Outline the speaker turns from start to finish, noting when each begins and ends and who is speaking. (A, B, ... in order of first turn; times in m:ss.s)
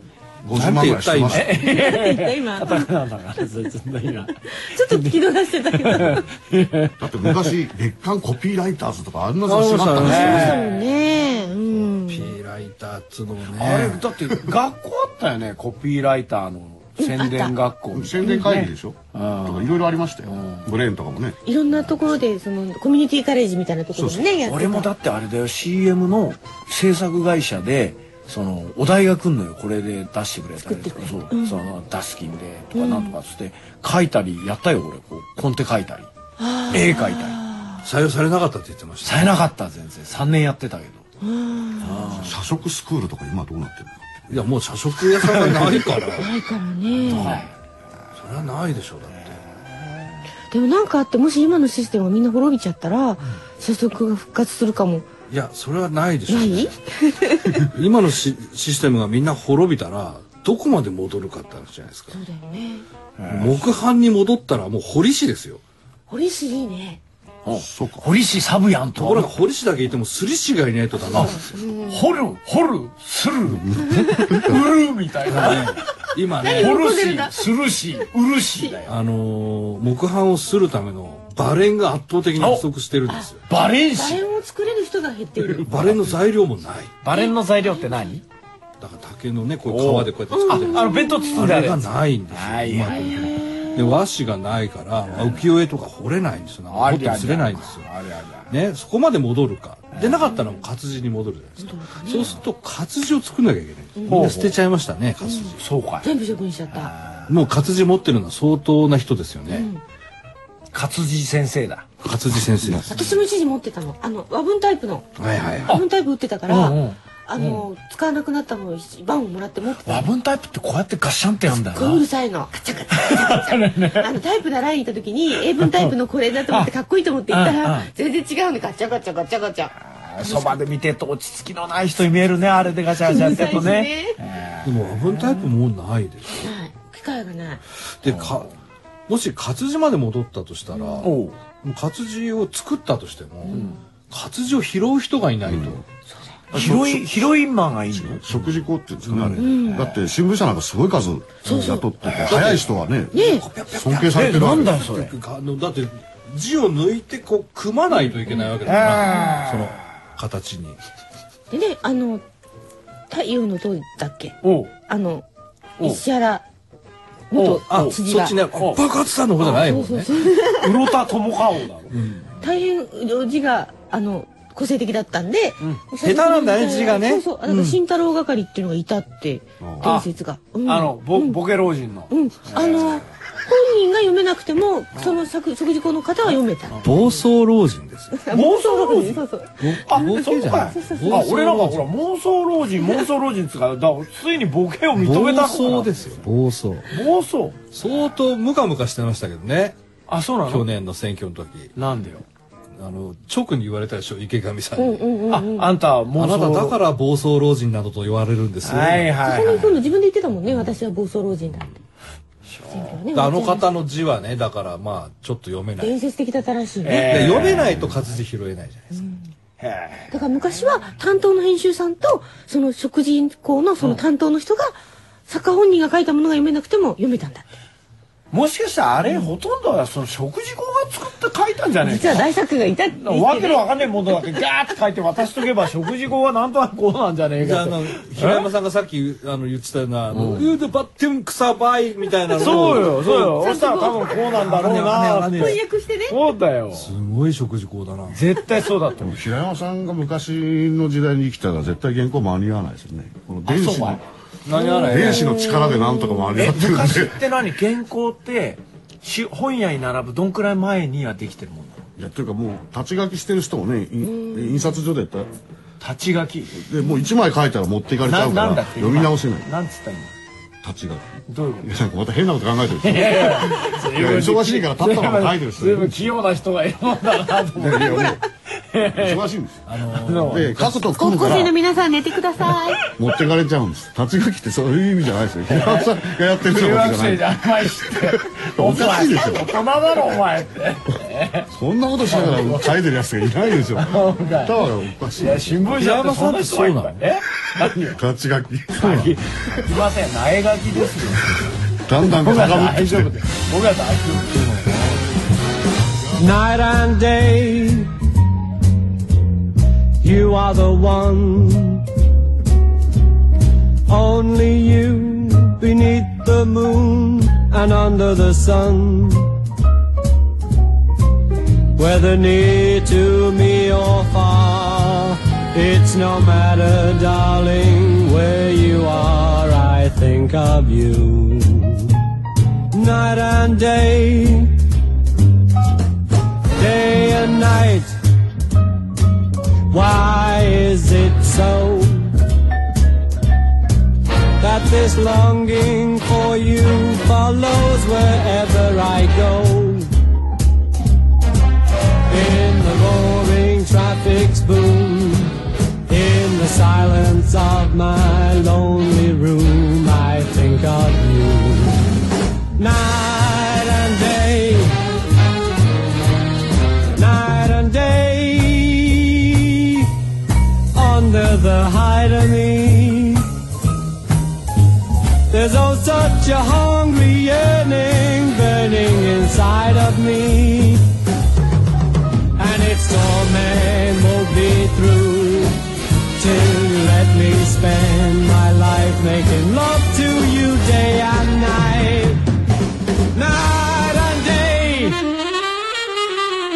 0:00.4-0:01.6 A
0:00.5-0:01.5 B
0:01.3-0:05.2 C
0:01.6-0:02.9 D
0:04.5-0:06.2 D
0:05.7-0:07.5 C
0:07.0-0:10.4 A
0:09.4-0:10.6 B
0:10.0-0:10.7 C
0:10.0-0:12.3 D
0:12.0-0:14.0 B
0:13.5-0:20.7 C
0:17.0-0:17.5 D
0:17.9-0:21.4 A
0:18.2-0:18.6 D
0:21.4-0:24.9 D
0:23.9-0:24.3 A
0:24.4-0:36.1 C
0:30.7-0:31.6 D
0:32.7-0:33.1 D
0:36.4-0:37.8 D
0:36.7-0:37.4 C
0:37.8-0:39.4 B
0:39.0-0:41.0 C
0:41.2-0:42.2 D
0:41.8-0:42.3 C
0:42.2-0:44.3 A
0:44.3-0:46.3 B
0:45.2-0:45.9 C
0:46.2-0:47.5 D
0:47.0-0:47.5 C
0:48.2-0:49.4 B
0:50.5-0:55.1 D
0:55.3-0:56.7 B
0:56.3-0:57.6 D
0:57.6-1:02.2 B
1:02.1-1:02.8 D
1:03.2-1:03.7 C
1:03.3-1:05.6 B
1:06.1-1:07.0 D
1:07.4-1:09.3 C
1:07.6-1:08.0 A
1:09.0-1:11.4 B
1:11.1-1:15.8 C
1:11.2-1:12.0 D
1:13.5-1:14.4 A
1:15.3-1:16.8 B
1:16.4-1:17.5 D
1:16.4-1:18.9 C
1:18.9-1:23.4 B
1:22.4-1:22.6 C
1:23.5-1:24.2 C
1:23.9-1:25.7 D
1:25.6-1:26.1 C
1:25.6-1:26.9 B
1:27.0-1:28.2 C
1:28.8-1:37.9 B
1:29.7-1:33.4 C
1:30.3-1:31.5 D
1:32.9-1:33.9 D
1:35.1-1:35.5 C
1:36.7-1:38.5 C
1:38.5-1:45.6 B
1:39.9-1:40.3 C
1:41.6-1:42.4 D
1:44.0-1:44.2 D
1:44.1-1:44.6 C
1:45.2-1:46.9 D
1:45.6-1:46.1 C
1:46.7-1:47.3 C
1:47.3-1:49.7 B
1:49.5-1:49.8 D
1:50.7-1:51.9 C
1:52.0-1:53.1 B
1:52.8-1:55.1 D
1:55.2-1:55.8 B
1:55.6-2:00.1 D
1:56.5-1:57.6 C
1:59.8-2:02.0 C
2:01.7-2:10.6 D
2:02.9-2:04.1 C
2:05.4-2:05.9 C
2:06.5-2:06.7 C
2:07.3-2:07.9 C
2:09.9-2:15.4 C
2:13.0-2:14.2 D
2:14.6-2:16.5 B
2:16.4-2:17.6 D
2:18.0-2:18.5 B
2:18.0-2:18.5 C
2:19.1-2:21.1 B
2:21.0-2:21.4 C
2:21.6-2:25.8 B
2:23.5-2:23.8 C
2:25.5-2:25.8 A
2:26.5-2:28.3 C
2:26.5-2:27.0 A
2:27.9-2:33.1 A
2:29.1-2:30.0 C
2:29.4-2:29.9 D
2:31.4-2:31.9 D
2:32.1-2:32.4 C
2:32.2-2:40.8 B
2:33.1-2:33.4 D
2:33.7-2:34.8 A
2:34.1-2:35.1 C
2:38.6-2:39.7 C
2:41.5-2:42.2 D
2:43.1-2:45.2 D
2:44.4-2:44.8 C
2:45.8-2:46.4 D
2:47.3-2:48.4 D
2:47.3-2:48.0 C
2:47.7-2:50.2 B
2:49.4-2:50.9 D
2:50.4-2:52.0 C
2:51.9-2:52.3 B
2:52.4-3:01.4 D
2:56.0-2:57.8 B
2:59.6-2:59.9 A
2:59.8-3:00.1 C
3:00.6-3:03.0 C
3:02.1-3:07.2 D
3:04.9-3:05.2 C
3:06.8-3:08.2 B
3:08.1-3:09.5 D
3:08.3-3:09.2 C
3:09.6-3:11.9 B
3:09.9-3:16.2 C
3:10.0-3:11.4 D
3:15.0-3:16.9 B
3:16.9-3:17.6 C
3:17.7-3:19.8 B
3:20.1-3:20.7 C
3:20.5-3:21.7 B
3:21.8-3:22.2 C
3:22.8-3:25.0 B
3:24.8-3:25.7 D
3:25.3-3:26.8 C
3:26.2-3:29.1 B
3:28.6-3:29.8 C
3:29.2-3:31.8 D
3:32.5-3:33.0 C
3:32.7-3:33.7 D
3:33.1-3:36.0 B
3:35.8-3:37.5 D
3:36.8-3:38.0 C
3:37.0-3:39.0 B
3:38.9-3:39.2 D
3:39.6-3:40.1 C
3:40.1-3:47.4 D
3:48.3-3:52.3 C
3:51.8-3:53.7 D
3:53.0-3:58.5 C
3:57.4-4:03.3 B
4:00.1-4:00.5 C
4:02.4-4:06.9 C
4:03.3-4:04.2 D
4:04.4-4:05.6 B
4:05.3-4:06.2 D
4:06.7-4:08.2 B
4:08.1-4:09.2 C
4:09.0-4:14.0 A
4:13.4-4:14.0 C
4:14.4-4:15.3 B
4:14.7-4:16.4 D
4:14.9-4:17.2 A
4:16.4-4:21.8 C
4:22.0-4:25.3 A
4:24.1-4:24.7 D
4:25.8-4:26.7 C
4:26.6-4:29.5 A
4:28.0-4:30.1 C
4:30.6-4:36.0 A
4:31.3-4:31.7 C
4:32.8-4:39.3 C
4:37.6-4:38.2 A
4:37.8-4:38.1 D
4:38.9-4:39.6 A
4:39.6-4:40.9 B
4:40.0-4:40.5 C
4:40.2-4:41.6 A
4:40.9-4:42.9 D
4:43.0-4:47.4 A
4:45.5-4:51.5 C
4:47.9-4:49.5 A
4:51.5-4:55.6 A
4:52.1-4:52.8 C
4:53.7-4:58.0 C
4:55.8-4:57.0 B
4:57.8-4:59.2 A
4:58.8-5:01.5 C
5:01.9-5:03.1 A
5:02.0-5:05.0 C
5:06.2-5:07.9 E
5:10.0-5:11.8 E
5:13.9-5:19.4 E
5:21.8-5:31.9 E
5:32.7-5:34.6 E
5:36.6-5:38.0 E
5:39.7-5:42.1 E
5:44.4-5:49.9 E
5:52.1-6:01.9 E
6:02.6-6:04.8 E
6:06.9-6:09.9 E
6:10.7-6:13.3 E
6:15.3-6:20.9 E
6:22.4-6:25.6 E
6:26.2-6:32.2 E
6:33.1-6:35.0 E